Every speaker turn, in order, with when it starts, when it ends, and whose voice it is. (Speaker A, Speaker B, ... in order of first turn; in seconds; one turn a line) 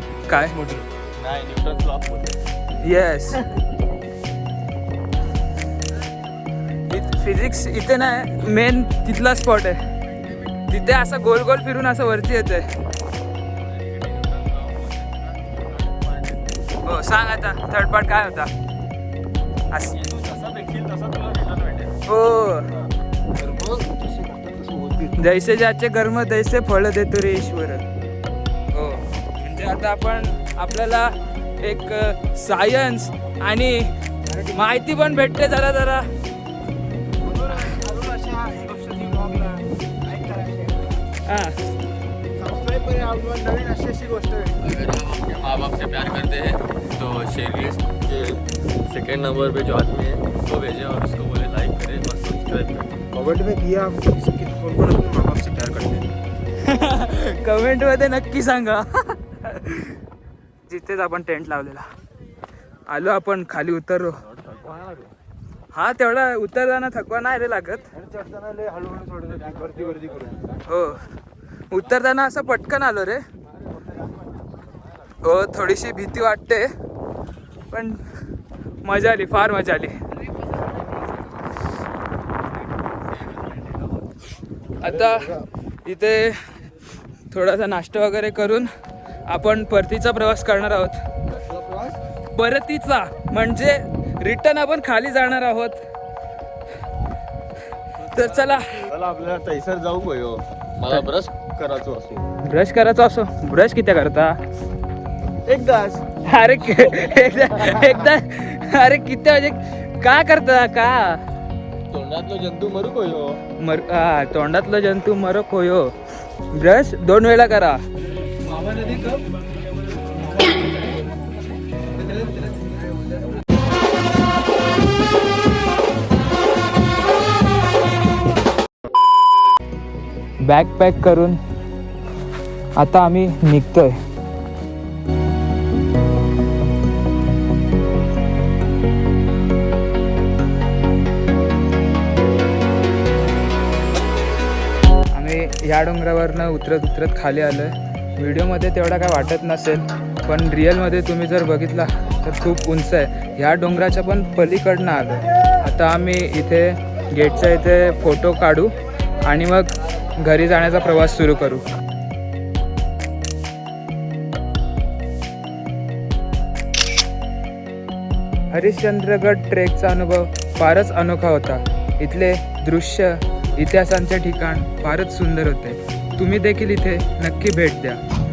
Speaker A: 0.3-0.7
Speaker B: 0.6-0.8
Speaker C: 1.1-2.4
Speaker A: 2.8-3.4
Speaker A: 6.9-9.8
Speaker A: 10.7-12.7
Speaker C: 13.6-16.6
Speaker A: 16.8-18.5
Speaker C: 19.9-21.9
Speaker A: 22.1-22.7
Speaker B: 23.3-25.2
Speaker A: 25.2-27.8
Speaker A: 28.7-33.9
Speaker B: 34.3-34.5
Speaker A: 34.5-36.1
Speaker B: 37.2-41.0
Speaker A: 41.2-41.5
Speaker B: 42.4-44.7
Speaker C: 44.6-52.9
Speaker B: 53.1-56.1
Speaker A: 56.6-60.0
Speaker A: 60.7-61.8
Speaker A: 62.9-64.2
Speaker C: 64.2-65.1
Speaker A: 65.7-67.9
Speaker B: 67.9-70.4
Speaker C: 69.4-70.3
Speaker A: 70.7-71.0
Speaker A: 71.7-73.2
Speaker A: 75.2-76.7
Speaker A: 77.7-78.0
Speaker A: 78.8-80.0
Speaker A: 84.8-85.3
Speaker B: 84.8-85.4
Speaker A: 85.8-86.4
Speaker A: 87.3-88.7
Speaker A: 89.3-91.0
Speaker C: 91.4-91.9
Speaker A: 92.3-95.8
Speaker C: 98.1-102.2
Speaker A: 98.1-98.8
Speaker A: 102.4-104.3
Speaker C: 105.4-106.0
Speaker A: 106.2-111.2
Speaker C: 107.7-108.0
Speaker C: 111.9-113.4
Speaker A: 113.6-115.9
Speaker A: 116.5-117.8
Speaker B: 118.5-119.2
Speaker B: 122.0-123.1
Speaker A: 130.4-131.4
Speaker A: 132.8-133.9
Speaker A: 145.1-161.6
Speaker A: 168.5-178.0